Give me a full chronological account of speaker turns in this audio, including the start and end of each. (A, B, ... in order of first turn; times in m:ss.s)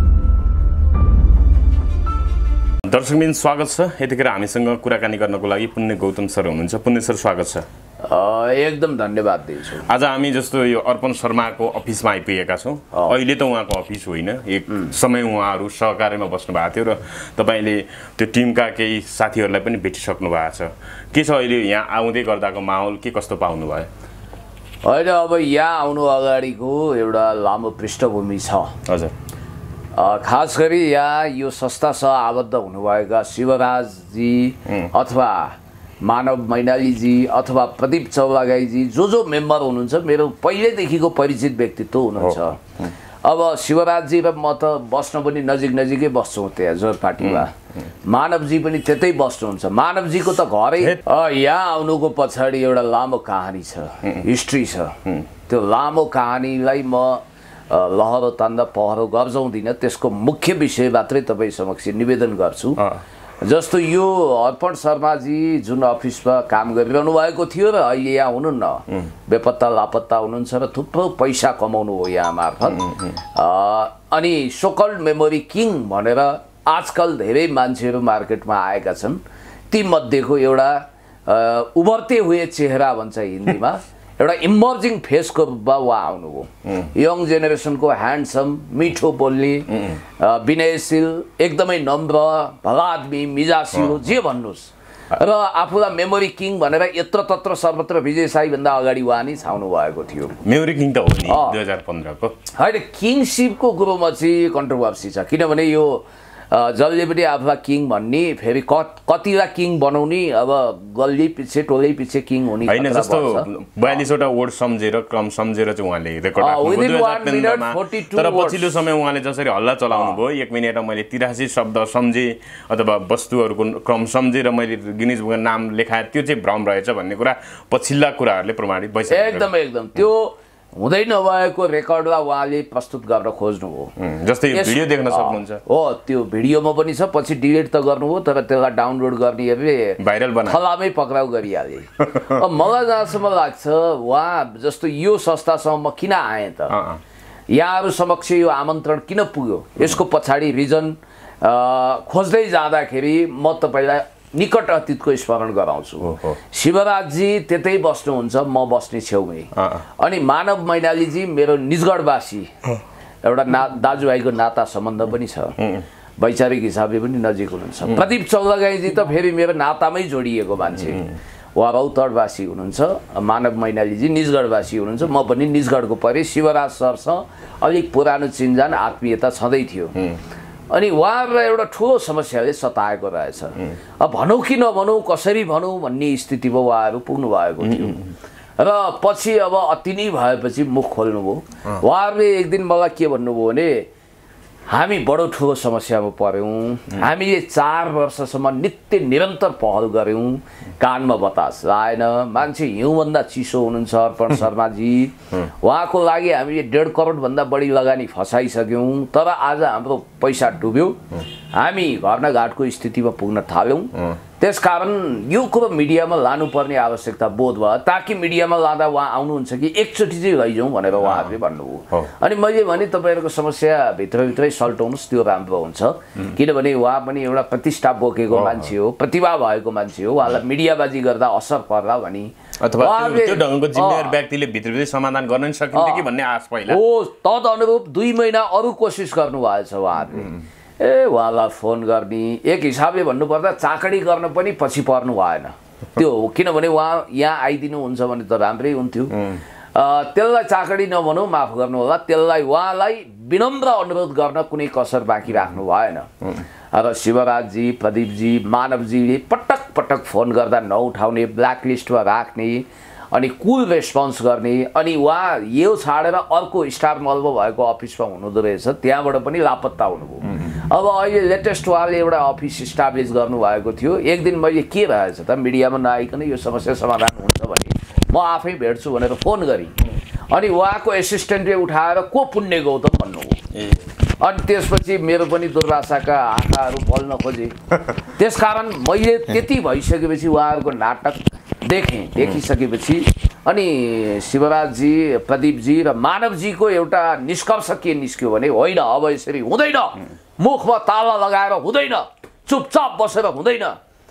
0:02.8-0:07.6 A
0:08.0-0:09.8 B
0:09.8-0:23.9 A
0:24.8-0:28.8 B
0:28.8-0:29.1 A
0:30.0-0:42.6 B
0:43.2-0:47.5 B
0:48.0-0:55.0 B
0:55.5-1:02.8 B
1:03.4-1:40.4 B
1:12.8-1:13.1 A
1:29.7-1:30.0 A
1:40.4-1:42.4 A
1:41.3-1:41.6 B
1:42.5-1:53.5 B
1:52.7-2:09.5 A
1:56.4-1:58.8 B
1:59.9-2:00.2 B
2:09.1-2:13.9 B
2:14.0-2:15.6 A
2:14.5-2:26.7 B
2:20.0-2:20.6 A
2:22.1-2:22.4 A
2:26.7-2:27.0 A
2:27.5-2:42.5 B
2:36.0-2:36.4 A
2:39.5-2:39.8 A
2:43.2-2:45.6 B
2:45.6-2:45.8 A
2:46.2-3:00.0 B
3:00.7-3:08.1 B
3:07.6-3:08.1 A
3:08.6-3:13.8 B
3:14.7-3:31.0 B
3:31.6-3:54.1 B
3:41.0-3:41.3 A
3:48.3-3:48.7 A
3:52.6-3:56.8 A
3:55.7-3:56.1 B
3:56.7-4:16.1 B
4:16.7-4:39.8 B
4:40.3-4:43.4 B
4:43.5-4:43.8 A
4:44.2-5:03.8 B